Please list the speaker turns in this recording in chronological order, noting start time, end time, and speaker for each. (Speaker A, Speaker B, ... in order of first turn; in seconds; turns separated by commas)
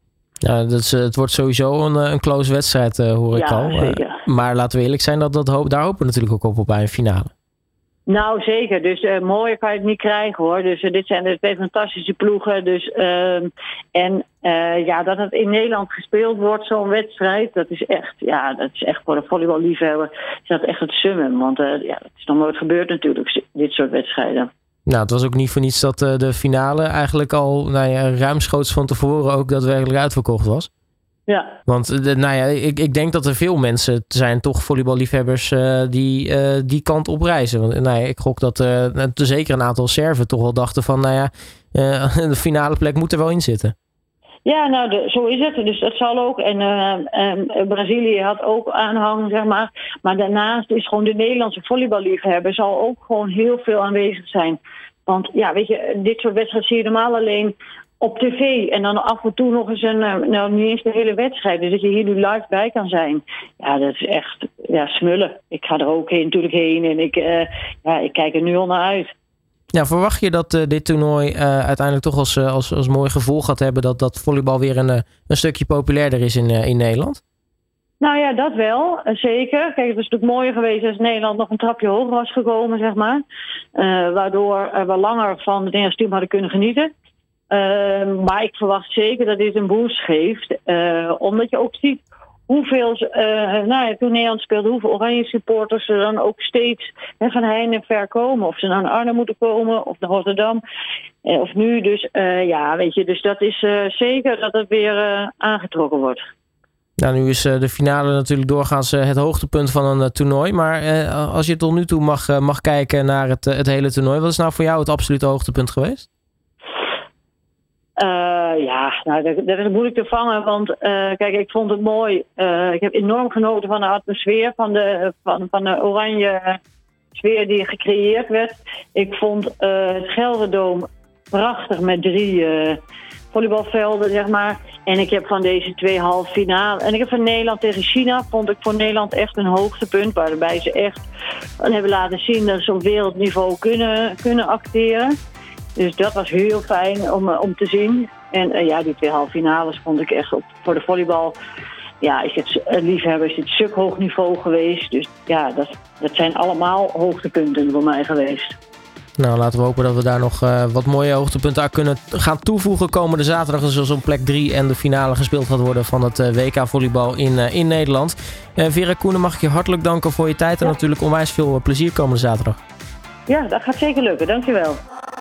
Speaker A: 0.4-7.3, Speaker B: 3.3-4.2, Speaker B: 8.1-24.5, Speaker A: 24.9-30.7, Speaker B: 31.3-31.6, Speaker A: 31.7-43.7, Speaker B: 44.4-69.1, Speaker A: 69.7-77.2, Speaker B: 78.0-83.2, Speaker B: 83.8-86.9, Speaker B: 87.5-100.6, Speaker B: 101.2-106.2, Speaker A: 107.0-116.1, Speaker B: 118.0-126.6, Speaker B: 127.1-132.8, Speaker B: 133.3-141.1, Speaker B: 141.6-145.2, Speaker B: 145.8-151.4, Speaker B: 152.0-158.6, Speaker A: 159.2-172.6, Speaker B: 173.3-174.8